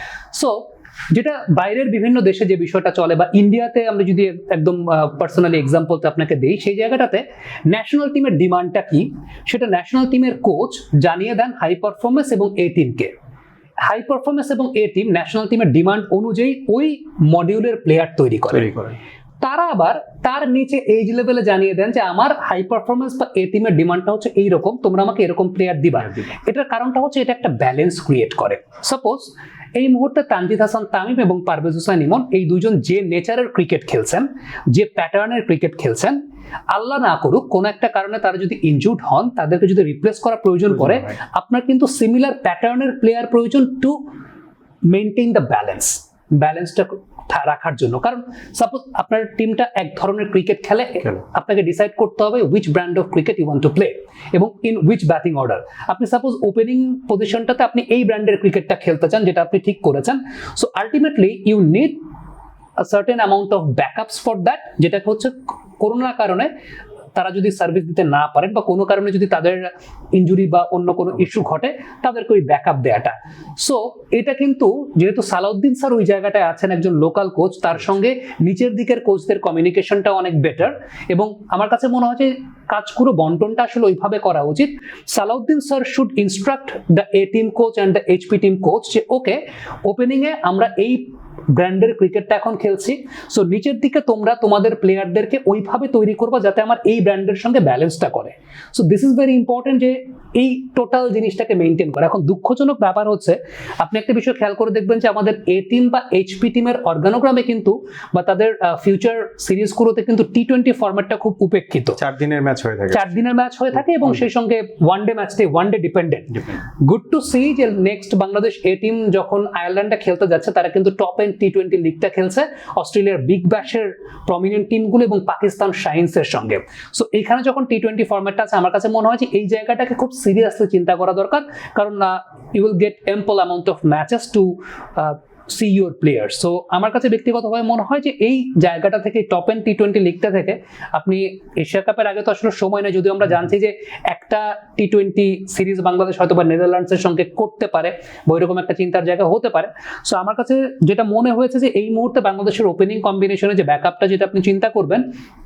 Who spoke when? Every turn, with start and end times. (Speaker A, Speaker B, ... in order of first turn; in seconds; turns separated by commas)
Speaker A: 0.3-13.1, Speaker A: 13.8-18.8, Speaker B: 18.5-18.9, Speaker A: 19.4-44.0, Speaker B: 40.7-41.1, Speaker A: 44.9-62.0, Speaker A: 62.8-66.5, Speaker A: 67.2-112.0, Speaker B: 112.0-113.1, Speaker A: 112.9-155.1